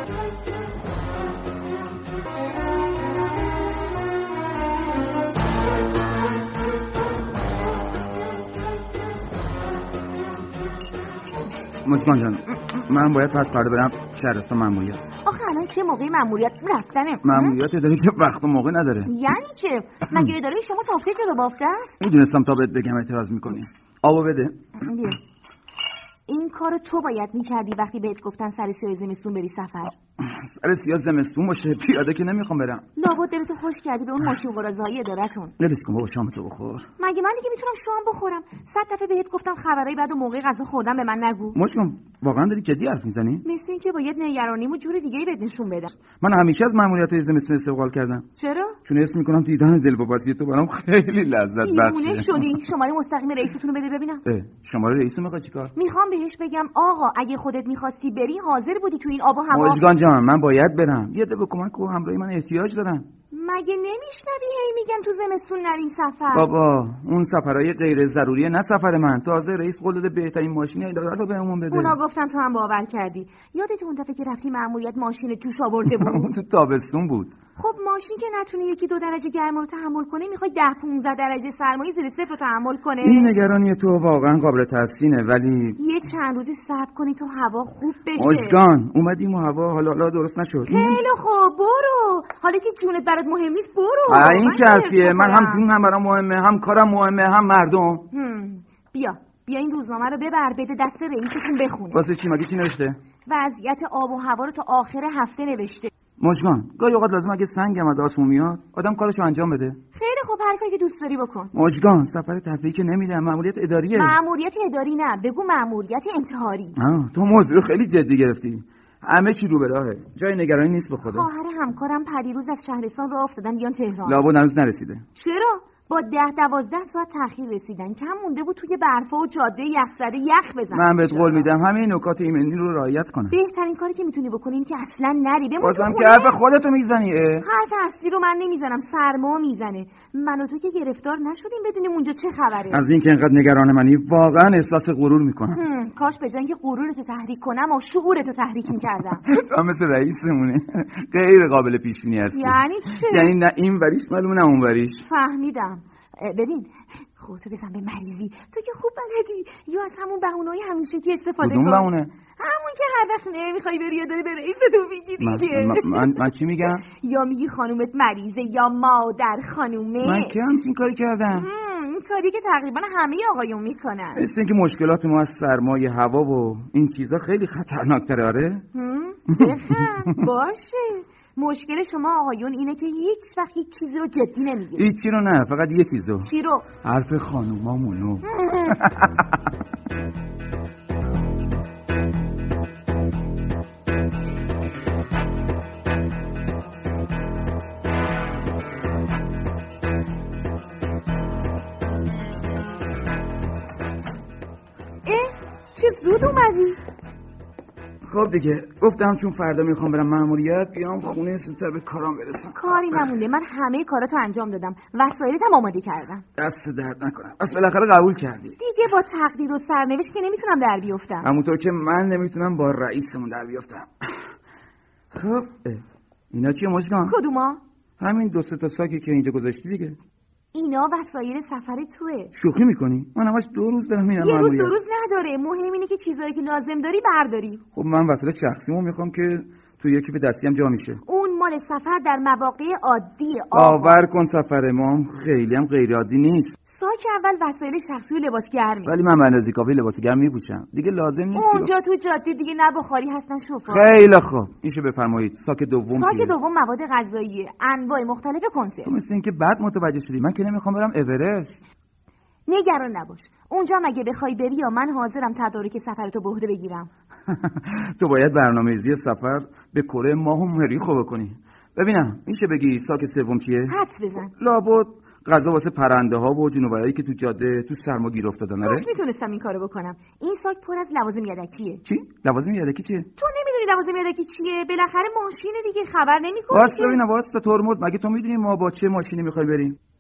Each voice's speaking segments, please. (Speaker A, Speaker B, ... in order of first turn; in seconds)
Speaker A: 11.8-15.0, 17.2-19.1, 22.0-24.6, 30.2-32.8, 35.6-36.9, 41.5-43.5, 46.2-48.3, 48.8-52.5, 54.2-55.7, 59.5-63.1, 66.3-72.0, 75.9-77.4, 83.0-85.8, 88.2-91.0, 94.1-98.1, 101.9-103.0, 106.2-109.8, 111.5-114.2, 116.8-121.3, 124.0-125.1, 130.7-133.4, 135.6-137.4, 142.7-145.6, 149.2-155.1, 161.4-162.1, 165.2-166.8, 170.0-171.5, 174.2-178.7, 179.3-180.3, 184.8-186.3, 186.8-189.4, 208.1-213.0, 216.4-218.6, 221.2-224.3, 225.1-227.2, 228.0-230.0, 232.3-234.8, 237.7-241.0, 243.5-246.6, 248.8-251.7, 253.7-256.4, 258.9-261.6, 267.3-278.9, 281.8-283.1, 286.5-289.8
Speaker B: 15.2-17.6, 19.1-22.0, 24.8-25.2, 26.3-30.0, 33.0-35.5, 37.0-41.6, 43.4-46.0, 48.4-48.8, 51.6-54.2, 55.8-59.9, 63.3-66.5, 71.7-76.3, 77.6-83.4, 85.8-88.6, 90.7-95.7, 98.1-102.0, 103.2-105.9, 109.9-111.5, 113.9-116.8, 121.0-124.3, 125.2-131.5, 133.3-136.4, 137.4-142.8, 145.5-149.2, 152.3-153.4, 155.0-170.6, 171.3-174.2, 178.7-184.9, 186.2-186.7, 188.2-188.8, 205.1-206.8, 212.5-216.2, 218.6-221.3, 227.1-227.6, 230.5-232.3, 234.2-237.6, 241.0-244.0, 246.7-249.0, 251.3-254.0, 255.9-258.9, 262.5-266.9, 273.7-274.3, 278.6-281.8, 283.2-287.0